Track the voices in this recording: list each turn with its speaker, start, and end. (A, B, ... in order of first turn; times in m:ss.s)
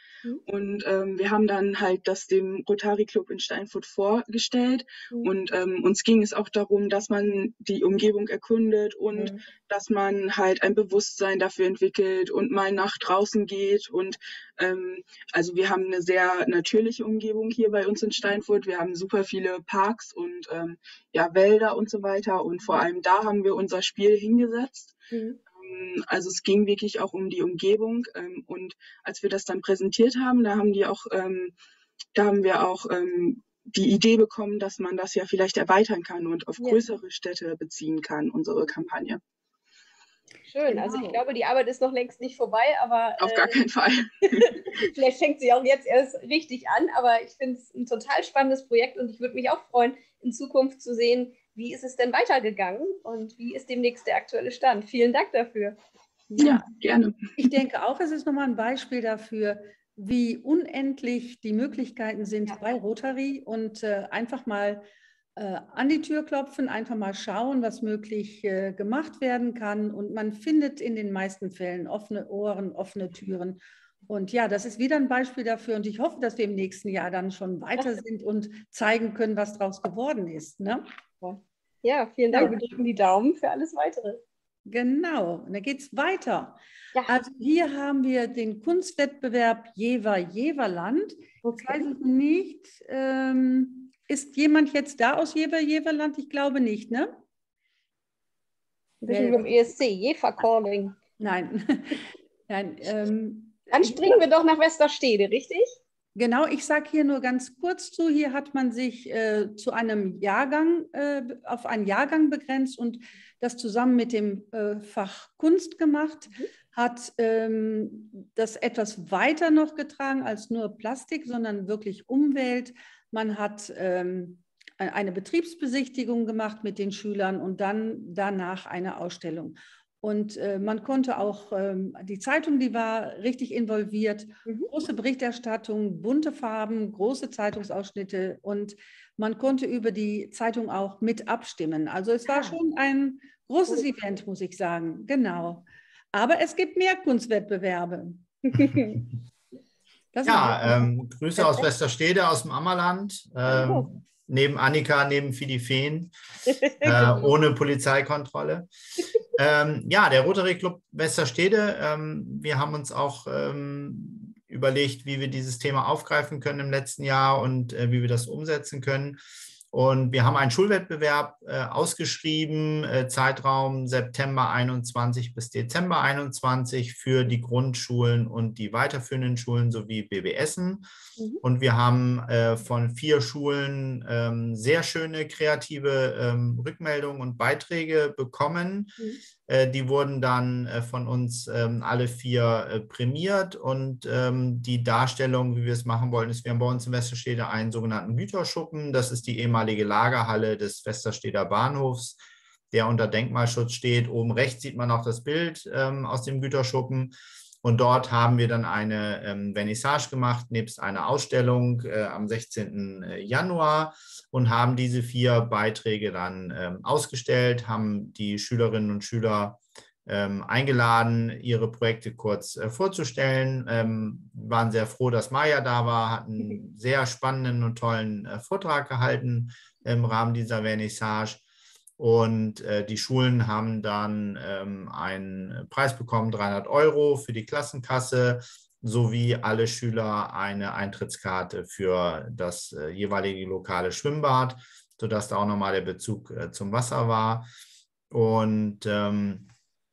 0:00.4-0:25.0 A
0:09.1-0:09.4 B
0:25.1-0:25.4 B
0:25.5-0:31.5 A
0:32.1-0:39.2 A
0:40.5-0:43.6 B
0:40.7-0:41.2 C
0:43.2-0:44.6 A
0:44.3-0:55.8 B
0:56.3-0:56.6 C
0:56.4-0:57.2 A
0:57.4-1:04.8 C
1:05.4-1:20.8 C
1:21.2-1:24.2 B
1:24.6-1:37.2 C
1:31.4-1:31.9 B
1:39.0-1:41.0 B
1:39.1-1:39.5 C
1:41.2-1:44.2 C
1:43.7-1:45.8 B
1:46.2-2:28.3 C
2:22.3-2:22.6 B
2:30.1-2:30.9 C
2:30.2-2:36.1 D
2:33.4-2:33.8 B
2:36.6-2:37.3 B
2:36.8-2:38.7 D
2:39.3-2:49.2 D
2:49.7-3:00.8 D
3:01.4-3:09.0 D
3:09.5-3:22.2 D
3:22.7-3:51.4 D
3:52.0-4:07.4 D
4:08.1-4:09.5 D